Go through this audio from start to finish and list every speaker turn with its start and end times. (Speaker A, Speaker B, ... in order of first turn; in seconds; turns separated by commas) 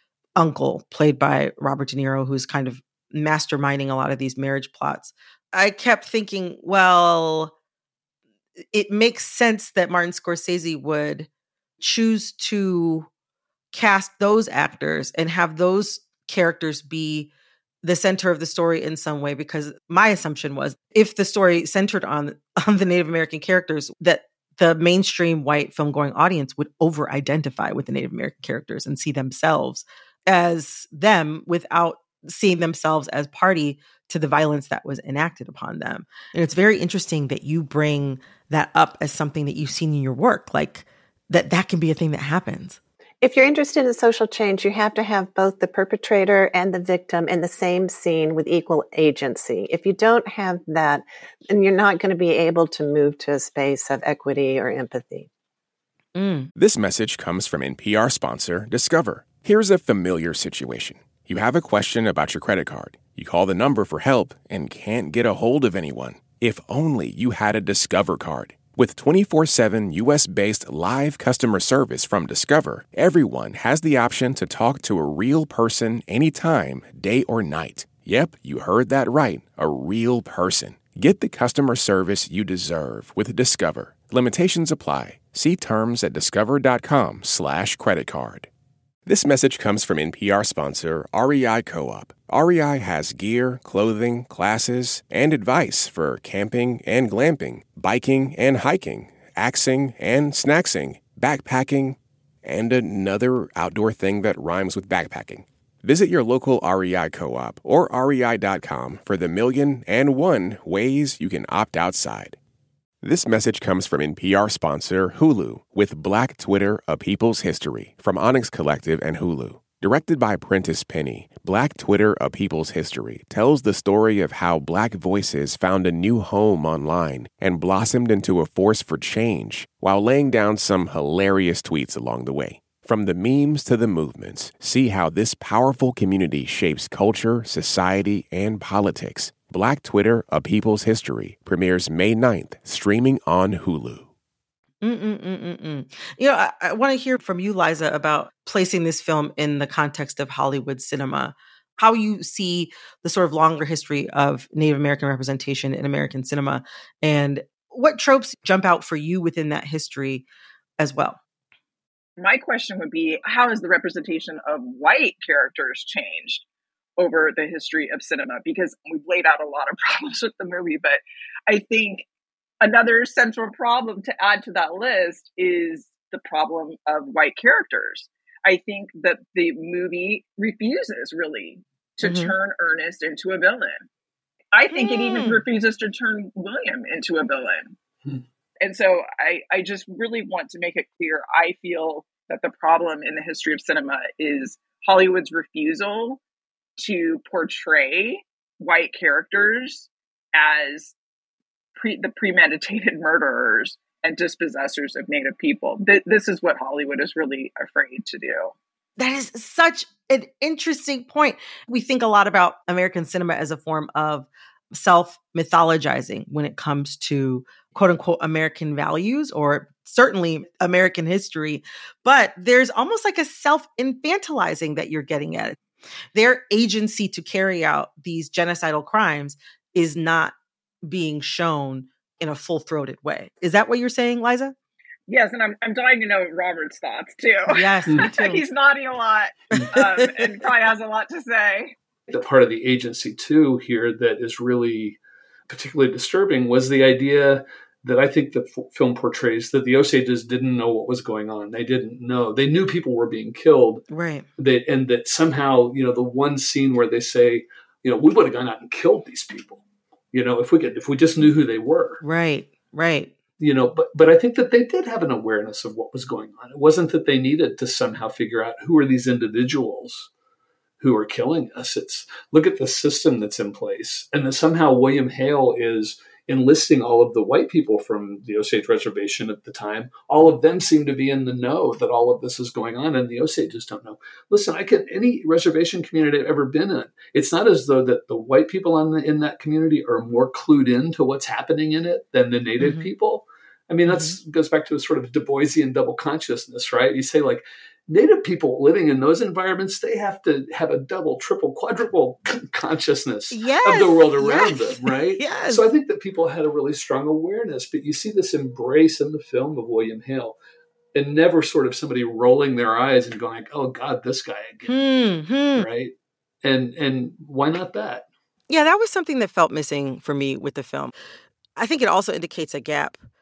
Speaker A: 0.4-7.5, Speaker A: 8.7-13.1, Speaker A: 13.7-17.3, Speaker A: 17.8-42.8, Speaker B: 43.2-55.3, Speaker A: 56.1-56.5, Speaker C: 56.5-88.5, Speaker C: 89.0-112.4, Speaker C: 113.0-144.1, Speaker A: 144.8-160.2, Speaker A: 160.8-161.2, Speaker D: 162.2-166.4, Speaker D: 167.0-172.1, Speaker D: 172.6-183.8, Speaker A: 182.0-182.3, Speaker D: 184.5-187.8, Speaker A: 184.7-185.4, Speaker D: 188.6-196.2, Speaker D: 196.8-200.9, Speaker D: 201.8-208.5, Speaker A: 209.0-225.6, Speaker A: 226.1-234.5, Speaker D: 235.1-241.8, Speaker A: 237.5-238.4, Speaker A: 239.6-240.3, Speaker E: 242.1-253.8, Speaker A: 253.9-254.2, Speaker E: 254.4-262.0, Speaker A: 262.0-263.1, Speaker E: 263.4-270.1, Speaker E: 270.8-310.4, Speaker A: 292.6-292.9, Speaker A: 293.9-294.2, Speaker A: 303.3-305.7, Speaker E: 310.9-314.7, Speaker A: 314.6-315.7, Speaker E: 315.6-318.1, Speaker A: 318.5-320.9, Speaker A: 321.6-323.0